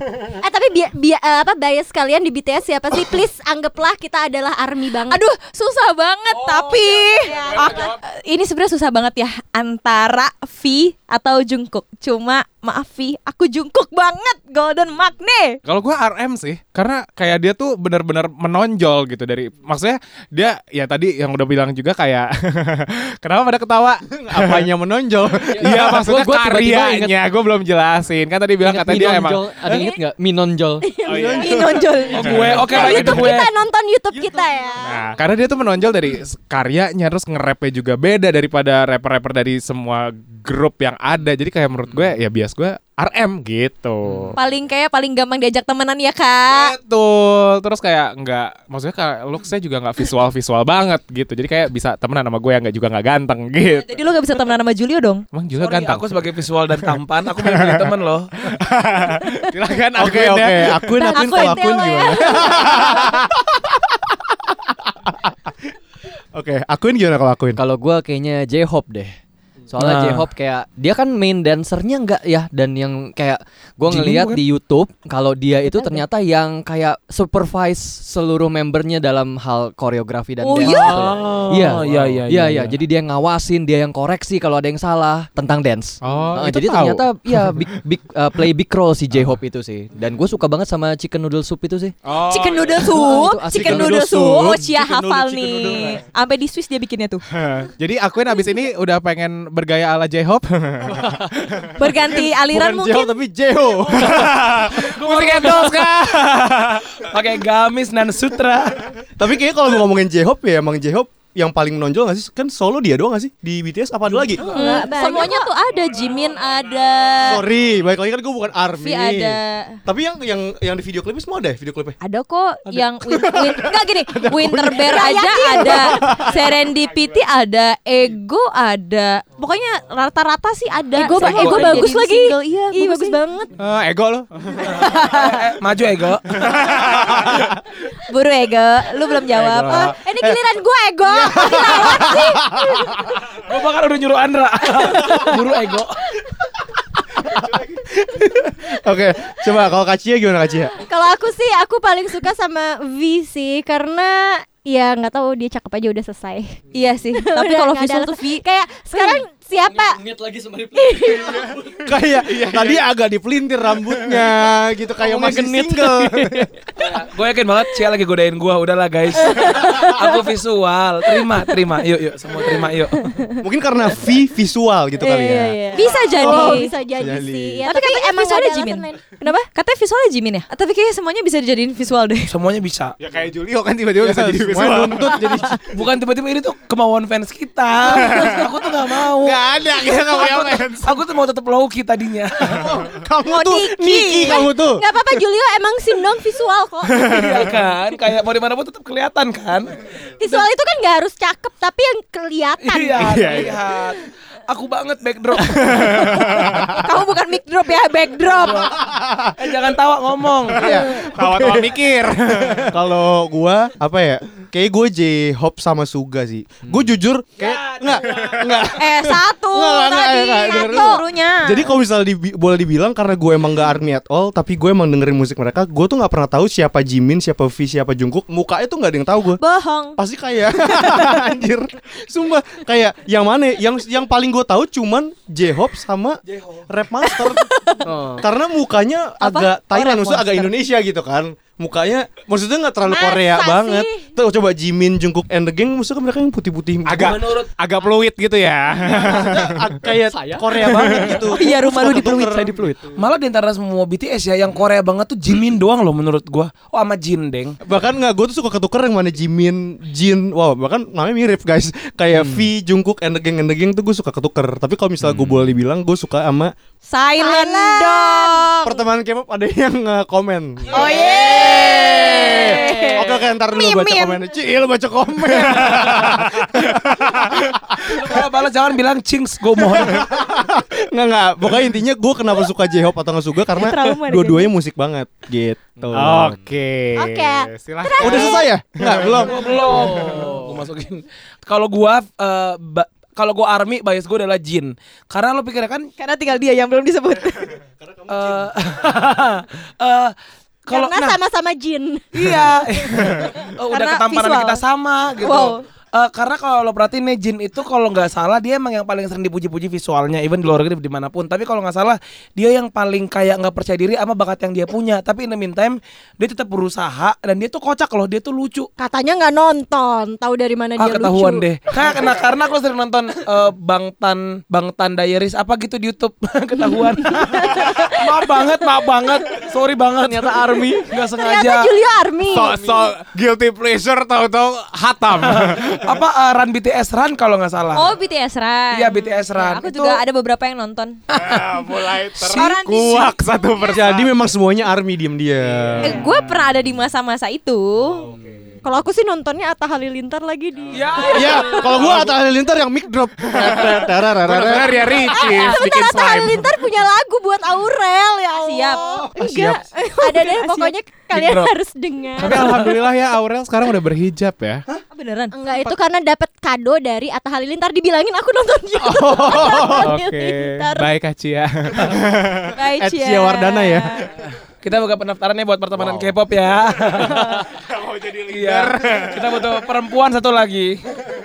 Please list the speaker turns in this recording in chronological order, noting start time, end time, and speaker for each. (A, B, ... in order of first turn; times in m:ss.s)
0:00.4-0:05.2 A
0:05.1-0:15.6 B
0:06.3-0:07.9 C
0:07.2-0:07.9 A
0:15.6-0:24.7 D
0:24.1-0:26.1 E
0:25.5-0:27.2 F
0:25.6-0:29.5 D
0:28.6-0:30.9 F
0:29.6-0:30.0 A
0:30.8-0:31.8 A
0:31.0-0:33.2 E
0:31.0-0:33.3 D
0:31.2-0:32.3 B
0:32.1-0:33.5 C
0:32.6-0:35.0 A
0:34.1-0:34.4 E
0:34.8-0:44.4 D
0:44.4-0:46.8 B
0:46.5-0:53.9 D
0:53.8-0:55.2 B
0:55.3-0:56.2 D
0:55.6-0:58.3 C
0:56.8-1:01.2 D
0:59.9-1:04.0 E
1:01.0-1:03.0 B
1:02.2-1:03.2 D
1:04.5-1:05.6 E
1:06.3-1:07.6 E
1:07.6-1:09.2 F
1:09.7-1:31.9 F
1:09.8-1:10.3 C
1:13.9-1:14.4 C
1:15.6-1:16.0 B
1:20.4-1:21.3 B
1:20.6-1:22.8 C
1:26.0-1:27.7 D
1:32.0-1:32.9 D
1:32.2-1:37.2 B
1:32.9-1:34.2 F
1:33.5-1:36.0 E
1:37.3-1:41.7 D
1:41.8-1:43.1 B
1:42.0-1:44.7 E
1:43.9-1:47.0 D
1:44.1-1:45.9 C
1:47.0-1:48.9 C
1:49.2-1:54.5 E
1:54.1-1:55.5 A
1:54.4-1:57.4 B
1:57.2-2:02.0 E
1:58.8-1:59.8 B
2:02.0-2:13.2 B
2:02.6-2:06.4 E
2:04.9-2:06.0 A
2:10.9-2:13.5 A
2:11.2-2:11.7 C
2:13.6-2:14.3 D
2:14.6-2:16.8 C
2:14.9-2:15.3 B
2:16.4-2:17.5 D
2:16.9-2:17.4 E
2:18.0-2:20.0 B
2:19.6-2:20.4 E
2:19.7-2:23.0 A
2:21.0-2:23.2 E
2:23.4-2:26.0 C
2:27.0-2:30.7 E
2:30.8-2:36.6 A
2:36.7-2:39.2 B
2:37.1-2:40.0 A
2:39.5-2:41.9 F
2:40.7-2:41.5 A
2:41.8-2:46.5 E
2:45.0-2:47.0 F
2:46.8-2:53.2 C
2:49.4-2:50.2 A
2:53.4-2:57.6 E
2:55.0-2:59.4 A
2:55.7-2:56.7 B
2:57.6-3:02.3 B
3:02.3-3:02.9 C
3:03.0-3:05.3 D
3:04.0-3:05.6 E
3:05.7-3:09.4 C
3:07.9-3:08.5 D
3:09.2-3:10.7 E
3:09.3-3:11.0 D
3:10.8-3:12.8 C
3:12.4-3:14.8 E
3:13.3-3:17.2 A
3:17.0-3:17.5 D
3:17.0-3:19.7 C
3:20.2-3:23.4 A
3:22.6-3:26.5 C
3:23.0-3:23.6 D
3:25.4-3:26.7 D
3:26.6-3:28.7 B
3:28.3-3:28.8 C
3:28.7-3:29.3 E
3:29.4-3:30.9 C
3:30.5-3:32.7 D
3:30.6-3:31.8 E
3:32.5-3:49.4 E
3:37.4-3:38.8 C
3:38.8-3:41.7 B
3:40.4-3:41.0 A
3:49.4-3:50.0 B
3:50.0-4:07.3 E
3:50.8-3:51.1 B
3:57.1-3:57.8 B
3:57.8-3:58.2 F
3:59.2-4:00.5 B
4:02.8-4:04.1 A
4:06.8-4:09.7 D
4:07.0-4:07.5 C
4:08.8-4:12.6 E
4:10.1-4:12.9 F
4:10.7-4:11.2 C
4:11.2-4:12.2 B
4:13.0-4:17.6 C
4:17.6-4:26.5 E
4:25.0-4:25.4 D
4:26.8-4:28.8 B
4:27.2-4:28.5 A
4:28.6-4:38.0 E
4:30.7-4:31.0 C
4:30.7-4:33.0 A
4:30.7-4:34.2 B
4:35.3-4:36.7 D
4:37.8-4:40.1 C
4:39.7-4:46.4 E
4:43.5-4:44.5 B
4:45.9-4:48.4 D
4:46.9-4:48.5 A
4:48.0-4:49.7 E
4:48.8-4:55.9 C
4:49.6-4:50.6 F
4:56.0-4:57.6 B
4:57.8-4:58.5 E
4:58.1-5:00.1 C
5:00.7-5:01.2 C
5:00.7-5:02.1 A
5:02.1-5:18.7 C
5:03.7-5:04.6 B
5:05.2-5:05.6 B
5:18.8-5:21.4 A
5:20.8-5:31.8 C
5:26.6-5:28.6 A
5:30.0-5:31.0 F
5:31.2-5:32.6 A
5:32.3-5:35.9 D
5:35.2-5:37.9 C
5:37.7-5:41.0 B
5:38.7-5:40.0 C
5:41.1-5:42.5 C
5:41.1-5:44.1 D
5:42.3-5:43.2 B
5:43.6-5:46.0 E
5:45.4-5:46.4 D
5:45.8-5:48.0 B
5:48.0-5:48.6 D
5:48.6-5:51.9 A
5:50.7-5:52.1 C
5:51.1-5:55.1 E
5:51.7-5:52.0 D
5:53.2-5:56.5 D
5:54.7-6:02.6 A
5:58.3-5:59.0 B
5:58.9-5:59.6 E
5:59.7-6:00.7 B
6:01.1-6:01.5 C
6:02.2-6:04.6 D
6:02.3-6:02.6 C
6:04.9-6:05.3 B
6:05.3-6:10.9 A
6:08.8-6:09.9 E
6:09.6-6:12.5 D
6:12.5-6:14.1 B
6:12.8-6:14.1 E
6:14.6-6:17.5 C
6:16.8-6:19.6 D
6:18.3-6:20.8 C